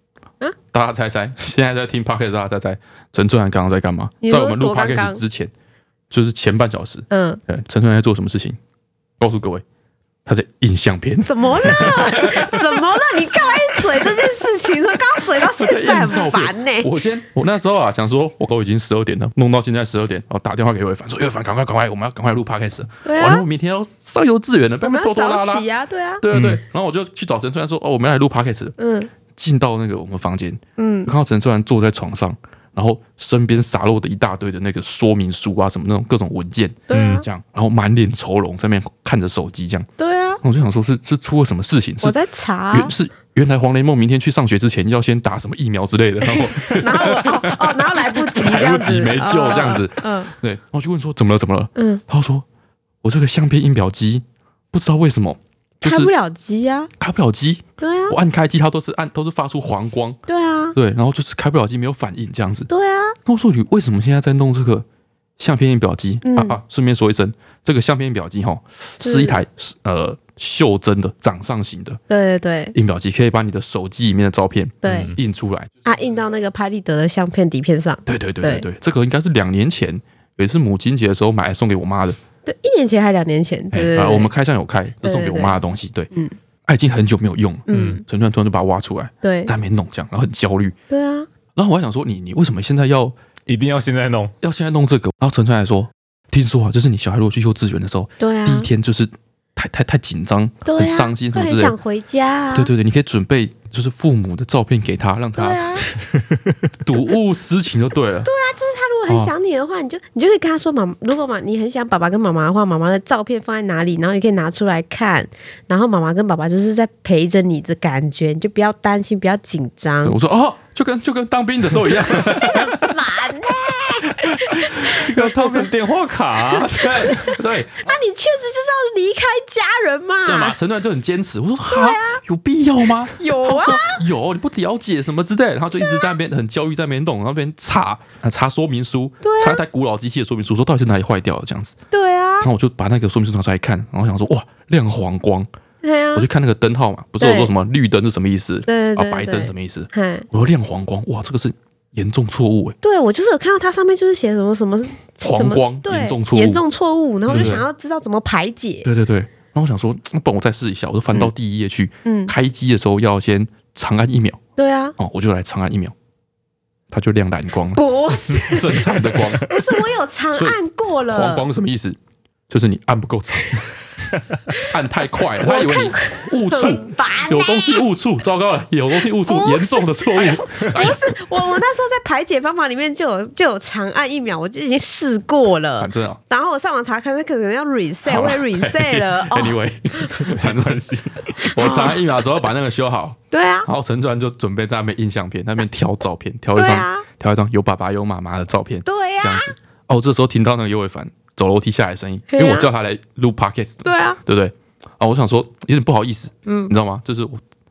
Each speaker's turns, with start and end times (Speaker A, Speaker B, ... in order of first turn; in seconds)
Speaker A: 0.7-5.5, 6.1-8.6, 9.2-9.6, 10.2-12.8, 15.3-25.6, 26.2-28.8, 29.3-39.9, 40.4-42.2, 42.7-52.4, 53.0-56.1, 57.0-60.2, 60.7-62.7, 63.2-64.8, 65.4-72.0, 72.7-75.7, 78.0-82.2, 83.7-86.1, 86.7-90.7, 91.5-93.2, 94.4-101.7, 102.5-105.8, 106.8-108.3, 109.1-109.3, 120.0-123.0, 124.1-125.1, 126.5-127.9, 130.2-141.8, 142.4-145.5, 146.1-152.8, 155.2-156.6, 157.3-157.7, 158.8-164.4, 165.0-165.9, 166.9-169.5, 170.3-172.0, 172.5-173.7, 174.6-181.1, 185.8-186.2, 188.1-207.4
Speaker B: 4.2-5.2, 7.1-7.4, 11.2-16.9, 23.0-23.4, 24.8-26.2, 28.8-29.1, 30.8-31.1, 36.9-37.2, 40.0-40.4, 42.0-42.9, 46.2-50.3, 51.8-52.0, 55.8-56.9, 57.8-58.1, 60.3-60.8, 62.7-63.2, 66.2-66.6, 69.0-69.4, 72.1-72.8, 74.8-75.1, 75.8-78.6, 82.4-84.3, 85.0-85.5, 87.7-88.0, 89.2-89.5, 90.9-91.3, 98.2-98.7, 100.6-102.7, 105.3-105.9, 108.2-120.2, 122.1-125.7, 127.0-130.6, 131.7-132.2, 133.2-134.0, 135.8-136.1, 139.2-139.6, 141.9-142.5, 145.8-146.3, 147.2-147.5, 148.7-150.2, 152.8-158.9, 162.0-162.3, 164.6-164.9, 167.7-171.4, 175.4-177.8, 179.2-189.6, 191.4-192.0, 193.3-193.7, 196.5-197.1, 198.8-199.5, 202.3-202.7, 203.8-204.2, 206.4-206.7
Speaker C: 26.3-26.6, 36.9-37.2, 74.8-75.1, 87.7-88.0, 93.5-94.3, 124.8-127.2, 190.2-190.8